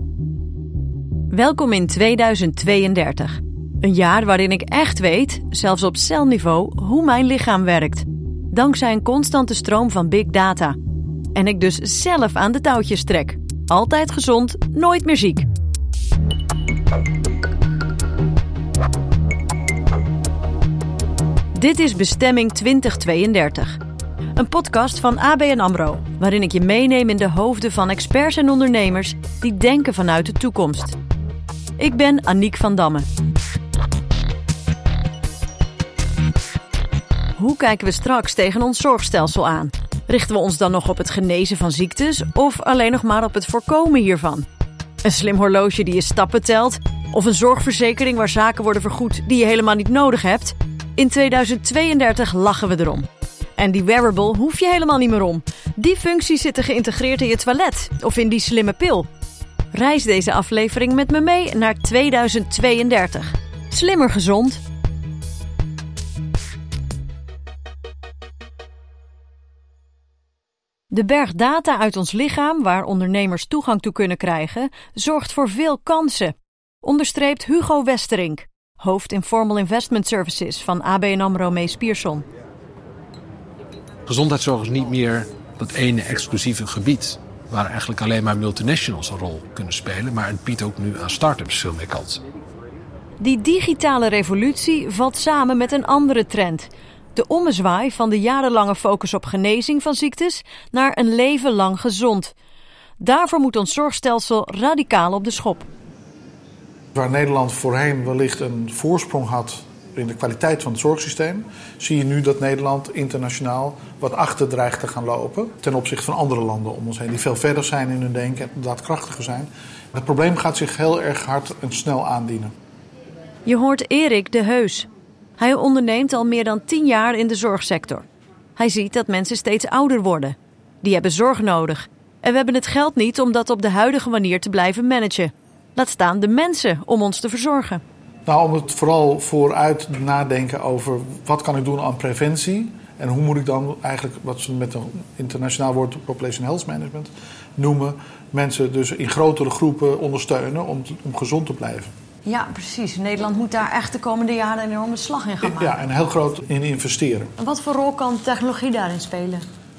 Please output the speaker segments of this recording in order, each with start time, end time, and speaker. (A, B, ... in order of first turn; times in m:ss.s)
0:01.3-0:10.8 A
0:11.3-0:15.5 A
0:21.5-0:23.8 A
0:24.4-0:31.0 A
0:31.8-0:33.1 A
0:37.4-0:44.5 A
0:45.0-0:59.1 A
0:59.7-1:04.6 A
1:10.9-1:22.2 A
1:24.1-1:32.2 B
1:33.2-1:42.3 A
1:43.0-1:45.7 A
1:46.9-2:02.5 C
2:03.5-2:17.8 A
2:18.3-2:31.9 C
2:32.3-2:35.7 A
2:35.4-2:37.3 C
2:37.4-2:39.5 A